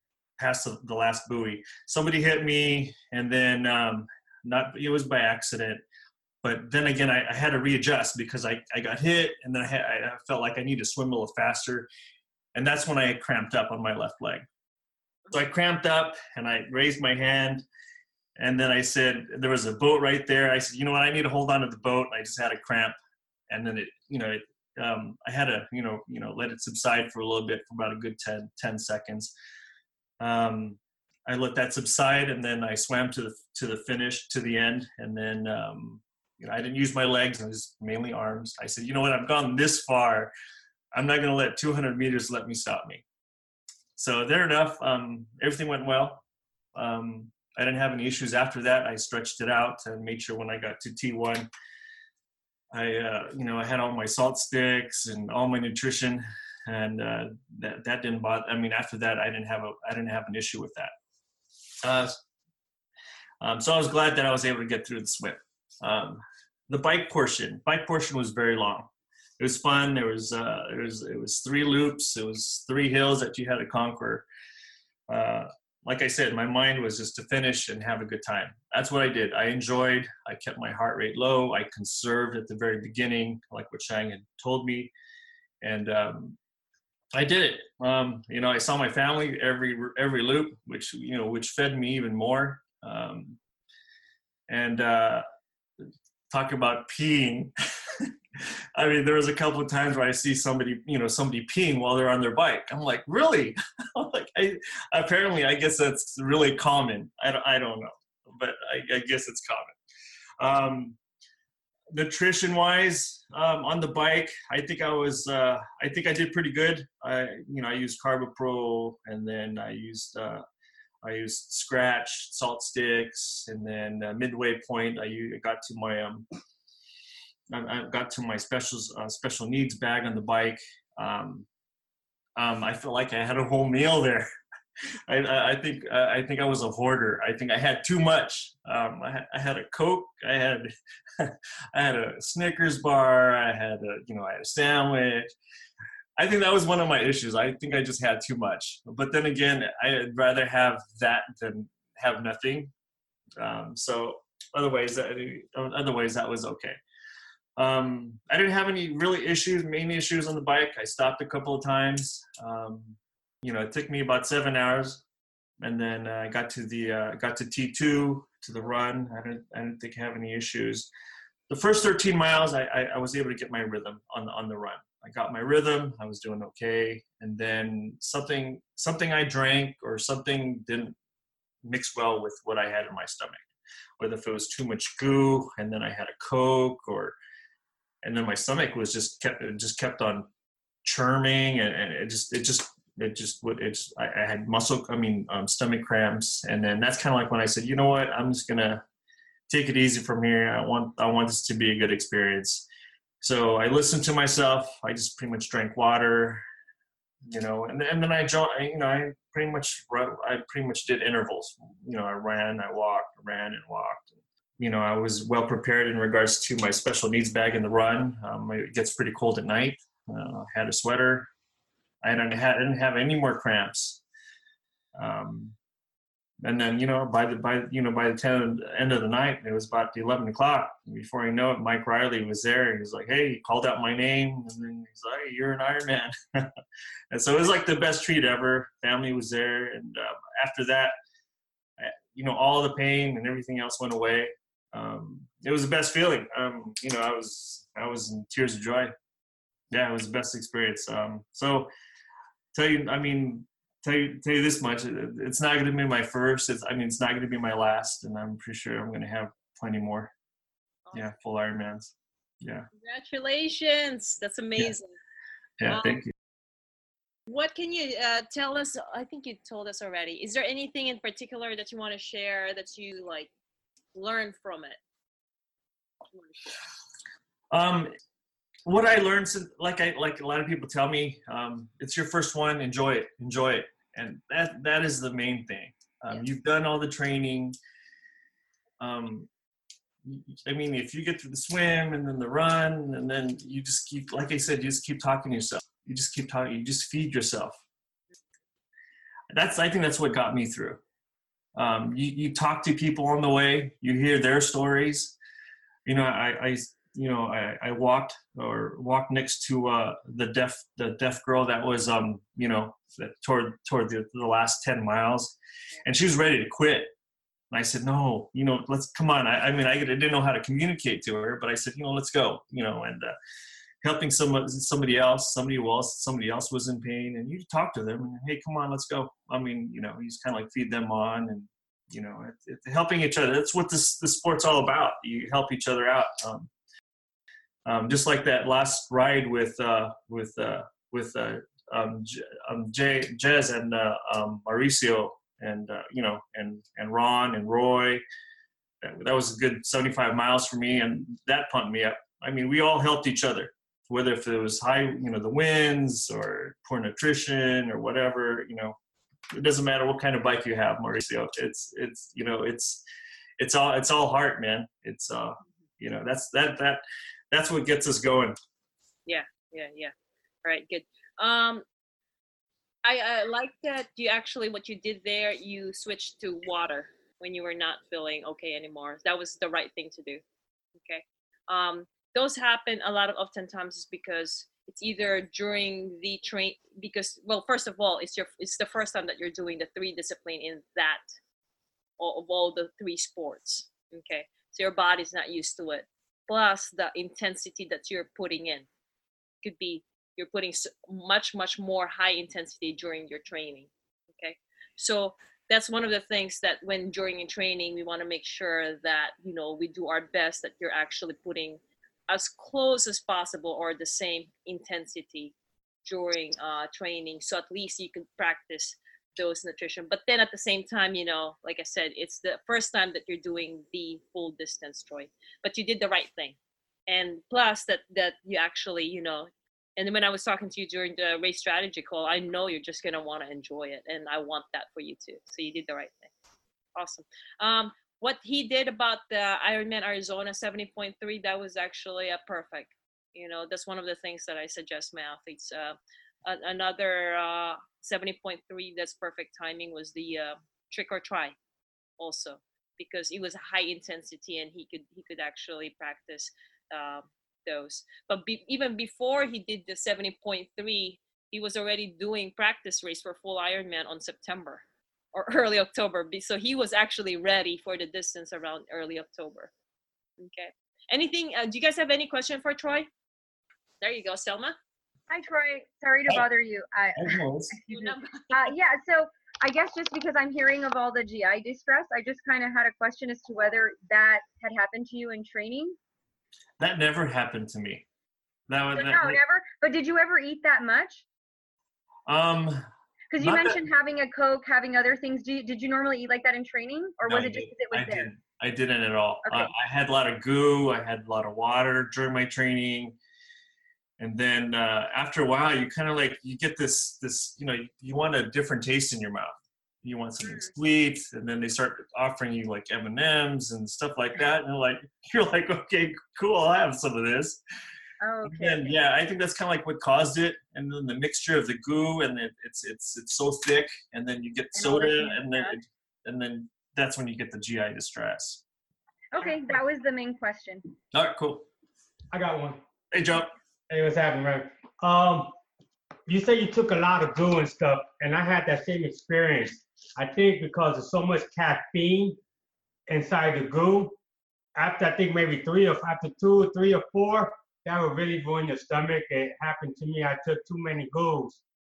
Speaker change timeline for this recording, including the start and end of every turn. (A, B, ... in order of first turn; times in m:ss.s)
0:00.4-0:05.8 A
0:06.4-0:11.9 A
0:12.5-0:14.5 A
0:15.3-0:17.6 A
0:18.4-0:23.0 A
0:23.5-0:29.3 A
0:30.2-0:40.3 A
0:40.9-0:43.0 A
0:44.0-0:46.2 A
0:46.8-0:51.5 A
0:52.7-1:00.9 A
1:01.8-1:02.2 A
1:03.4-1:14.3 A
1:15.1-1:24.9 A
1:25.6-1:26.4 A
1:27.1-1:33.4 A
1:34.5-1:35.2 A
1:36.3-1:38.1 A
1:38.8-1:49.8 A
1:50.4-1:51.0 A
1:51.9-2:00.4 A
2:01.0-2:06.3 A
2:07.5-2:11.5 A
2:12.4-2:14.3 A
2:15.1-2:25.3 A
2:26.2-2:32.7 A
2:33.4-2:36.8 A
2:37.6-2:45.0 A
2:45.6-2:50.9 A
2:51.5-3:01.0 A
3:01.6-3:03.4 A
3:04.0-3:07.2 A
3:08.0-3:10.3 A
3:10.8-3:18.8 A
3:19.5-3:22.7 A
3:23.2-3:26.4 A
3:27.3-3:41.3 A
3:42.0-3:44.0 A
3:45.0-3:45.6 A
3:46.4-3:56.5 A
3:57.1-4:01.0 A
4:01.8-4:08.9 A
4:09.7-4:11.7 A
4:12.5-4:20.1 A
4:20.9-4:22.7 A
4:22.8-4:24.9 B
4:25.6-4:26.1 A
4:25.7-4:25.9 B
4:27.3-4:33.3 B
4:33.9-4:34.8 B
4:37.5-4:37.9 A
4:38.7-4:47.6 A
4:48.8-4:49.3 A
4:50.0-4:57.6 A
4:59.3-5:00.8 A
5:01.6-5:05.2 A
5:05.9-5:16.9 A
5:17.5-5:23.2 A
5:23.8-5:36.5 A
5:37.6-5:48.0 A
5:48.8-5:58.8 A
5:59.3-6:02.8 A
6:03.4-6:08.4 A
6:09.1-6:09.9 B
6:10.4-6:11.6 B
6:12.8-6:20.2 B
6:20.8-6:31.0 B
6:32.0-6:38.7 B
6:39.4-6:55.3 B
6:55.9-7:06.4 B
7:06.9-7:16.1 B
7:16.8-7:31.4 B
7:32.0-7:49.5 B
7:50.2-7:52.9 B
7:53.8-7:54.6 B
7:55.1-8:05.8 C
7:57.0-7:57.6 A
7:57.7-7:58.5 B
8:06.6-8:07.8 A
8:08.5-8:09.2 A
8:08.8-8:11.0 C
8:12.1-8:12.7 A
8:13.1-8:18.1 C
8:13.2-8:13.6 A
8:17.1-8:23.0 A
8:19.2-8:19.5 C
8:24.0-8:37.4 A
8:30.2-8:30.5 C
8:38.0-8:38.8 C
8:38.2-8:48.4 A
8:44.6-8:45.5 C
8:49.1-8:50.6 C
8:50.9-8:51.5 A
8:52.1-8:52.6 D
8:52.9-8:53.3 A
8:53.7-8:55.4 D
8:56.1-9:02.2 D
9:02.9-9:04.0 D
9:04.6-9:11.4 D